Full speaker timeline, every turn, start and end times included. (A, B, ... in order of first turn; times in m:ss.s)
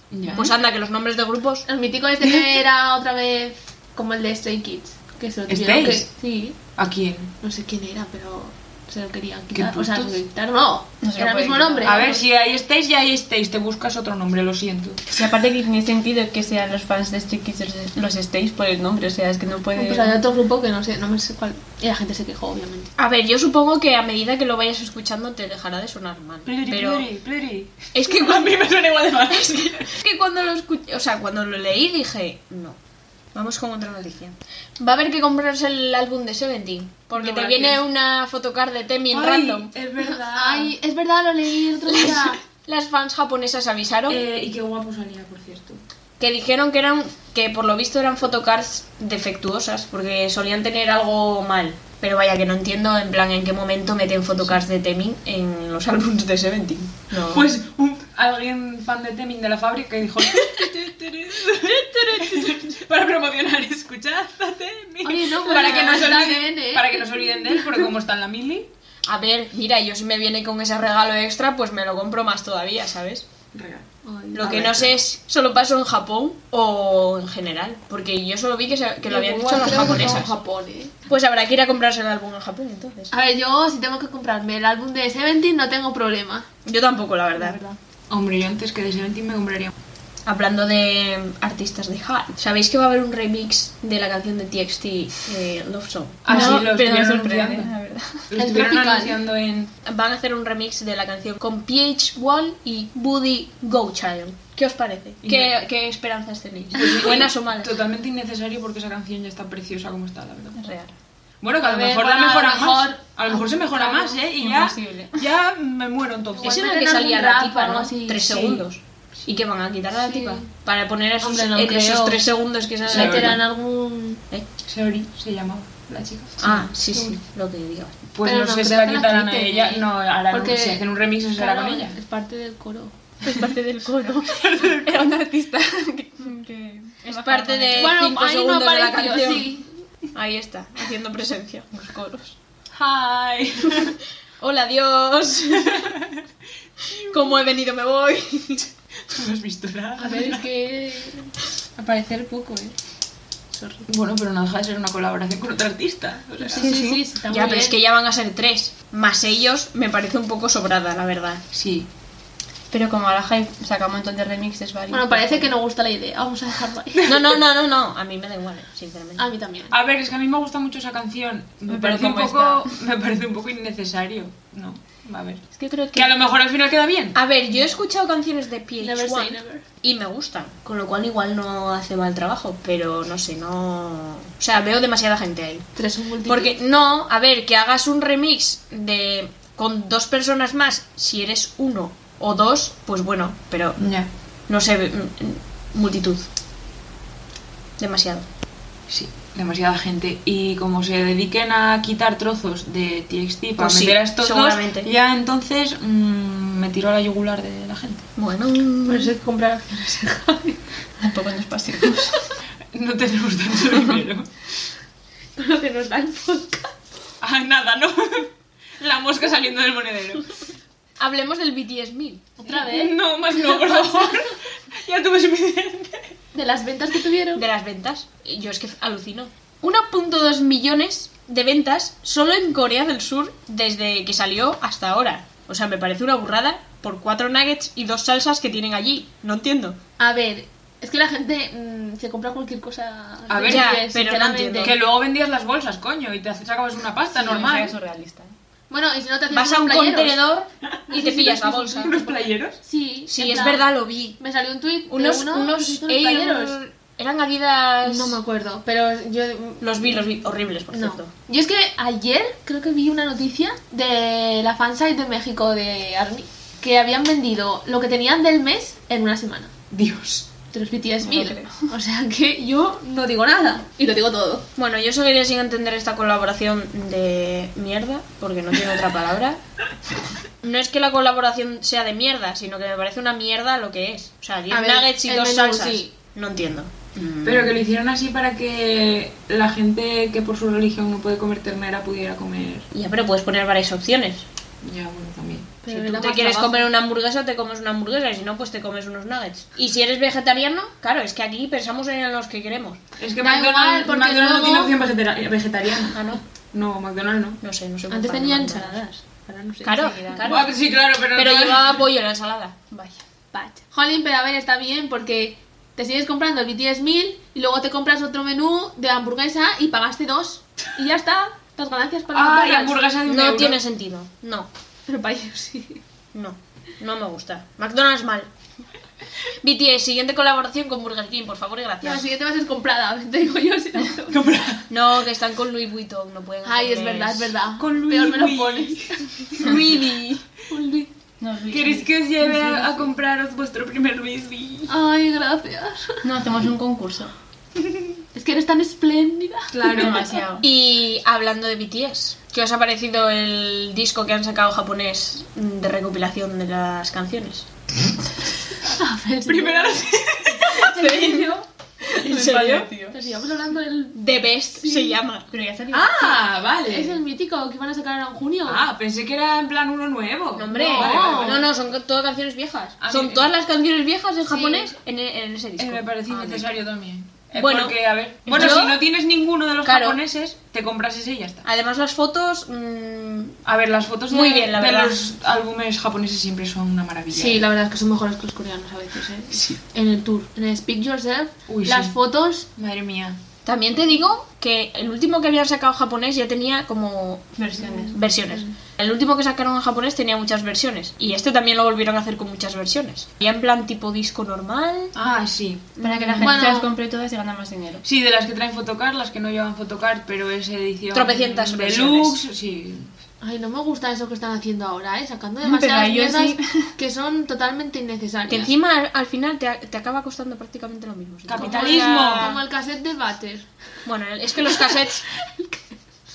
0:00.1-0:00.5 A
0:00.3-0:01.7 B
0:01.7-0:06.6 C
0:05.5-0:06.1 A
0:06.8-0:07.3 A
0:07.4-0:12.2 C
0:09.5-0:10.2 A
0:11.0-0:12.1 D
0:11.8-0:15.0 A
0:15.1-0:20.2 D
0:19.8-0:22.9 C
0:23.0-0:27.1 B
0:26.5-0:29.9 A
0:27.9-0:32.8 B
0:33.3-0:39.7 B
0:37.1-0:37.8 A
0:39.1-0:40.7 A
0:40.3-0:42.4 C
0:42.5-0:44.2 B
0:44.1-0:45.8 A
0:46.2-0:57.5 B
0:57.3-1:08.7 A
1:01.8-1:02.6 B
1:05.0-1:07.8 C
1:09.1-1:13.3 B
1:13.5-1:13.8 A
1:14.0-1:15.0 C
1:14.3-1:20.4 B
1:19.1-1:21.0 C
1:21.1-1:23.2 B
1:23.1-1:26.5 C
1:26.7-1:27.6 B
1:27.4-1:27.8 C
1:28.1-1:29.7 A
1:30.3-1:36.8 B
1:36.2-1:37.7 A
1:36.3-1:38.3 D
1:38.3-1:39.7 A
1:38.4-1:39.2 C
1:39.8-1:47.7 B
1:45.2-1:45.5 A
1:46.7-1:50.6 A
1:50.6-1:50.9 B
1:51.4-1:56.6 A
1:51.6-1:54.2 C
1:54.3-1:55.3 D
1:56.3-1:58.6 C
1:56.4-2:03.4 B
2:00.0-2:00.5 C
2:01.2-2:02.3 C
2:02.8-2:04.2 C
2:02.9-2:03.4 A
2:04.7-2:06.4 A
2:06.4-2:08.0 B
2:08.1-2:12.0 A
2:08.2-2:13.0 C
2:13.2-2:18.1 D
2:14.3-2:15.1 A
2:17.0-2:19.5 B
2:17.8-2:19.7 C
2:20.1-2:22.4 B
2:22.7-2:24.0 A
2:24.4-2:25.9 B
2:26.9-2:28.7 B
2:29.1-2:30.5 A
2:30.0-2:32.8 C
2:33.5-2:33.8 C
2:33.9-2:36.7 A
2:36.4-2:37.8 C
2:36.6-2:37.0 D
2:37.3-2:41.4 B
2:41.5-2:41.9 A
2:42.7-2:45.5 D
2:44.9-2:47.2 C
2:47.0-2:49.3 B
2:49.2-2:49.8 C
2:49.7-2:57.2 A
2:51.7-2:52.7 D
2:55.6-2:56.1 B
2:57.1-3:05.7 B
2:58.8-2:59.6 C
3:05.8-3:06.6 C
3:06.2-3:13.8 B
3:13.8-3:14.1 A
3:14.5-3:16.3 B
3:17.8-3:18.2 B
3:18.9-3:28.1 A
3:23.6-3:24.9 B
3:28.2-3:29.1 B
3:28.9-3:30.6 C
3:31.0-3:32.2 D
3:32.7-3:34.3 A
3:35.4-3:36.8 C
3:37.2-3:40.4 A
3:41.0-3:42.2 B
3:42.4-3:43.0 C
3:42.5-3:46.2 A
3:43.5-3:44.1 C
3:46.3-3:47.5 C
3:47.4-3:59.8 B
4:00.0-4:04.8 C
4:03.3-4:03.8 A
4:03.4-4:04.8 B
4:04.6-4:07.8 A
4:07.1-4:08.4 D
4:08.7-4:10.2 C
4:09.3-4:12.0 B
4:10.7-4:12.6 A
4:10.9-4:16.6 C
4:13.1-4:14.2 B
4:14.9-4:18.2 B
4:17.8-4:20.1 C
4:19.6-4:21.1 B
4:20.7-4:29.5 C
4:29.7-4:30.3 A
4:30.5-4:34.5 C
4:31.0-4:31.7 D
4:34.6-4:39.4 B
4:40.4-4:47.6 B
4:44.5-4:45.9 C
4:47.2-4:52.7 A
4:52.7-4:54.2 B
4:54.6-4:56.2 A
4:55.6-4:56.6 C
4:56.0-5:02.8 B
5:03.0-5:07.4 A
5:03.2-5:04.7 C
5:05.9-5:06.2 B
5:07.4-5:08.8 B
5:07.9-5:10.2 C
5:09.6-5:10.6 B
5:09.8-5:10.3 D
5:10.2-5:11.8 A
5:11.1-5:12.6 B
5:12.7-5:13.0 D
5:13.3-5:22.8 C
5:22.1-5:23.6 A
5:23.1-5:24.5 B
5:24.9-5:25.8 C
5:26.1-5:28.3 B
5:29.4-5:32.0 B
5:31.8-5:34.3 C
5:34.1-5:34.7 A
5:34.7-5:37.4 B
5:36.4-5:39.6 C
5:37.6-5:39.6 A
5:39.4-5:40.2 B
5:40.5-5:40.9 C
5:41.2-5:42.9 D
5:41.5-5:44.7 A
5:44.7-5:46.1 C
5:46.0-5:47.1 D
5:48.1-5:50.0 C
5:49.5-5:50.1 A
5:49.7-5:50.5 D
5:50.4-5:57.5 B
5:58.7-5:59.9 C
5:59.3-6:01.3 A
6:00.5-6:01.4 C
6:00.7-6:01.3 B
6:01.9-6:03.0 D
6:01.9-6:02.7 B
6:02.9-6:04.0 C
6:04.0-6:05.3 B
6:04.6-6:05.0 C
6:05.3-6:06.2 D
6:05.7-6:07.0 A
6:06.6-6:08.7 C
6:08.5-6:11.5 A
6:10.4-6:16.6 B
6:10.5-6:11.4 C
6:12.8-6:13.3 A
6:14.3-6:14.7 C
6:15.6-6:21.4 A
6:17.3-6:18.8 B
6:19.6-6:20.0 B
6:21.4-6:23.4 B
6:23.4-6:27.4 A
6:24.1-6:25.0 B
6:27.1-6:32.5 C
6:31.5-6:32.0 A
6:32.6-6:33.2 A
6:33.4-6:37.4 B
6:37.4-6:38.0 D
6:37.7-6:38.5 C
6:37.9-6:45.0 B
6:45.0-6:45.7 A
6:45.8-6:46.5 B
6:45.8-6:47.8 D
6:46.2-6:46.7 C
6:47.8-6:52.9 A
6:50.9-6:52.2 B
6:53.2-6:58.5 C
6:55.4-6:56.7 D
6:58.3-7:02.4 B
7:01.3-7:02.4 A
7:01.4-7:03.5 C
7:03.8-7:05.0 B
7:04.4-7:05.6 C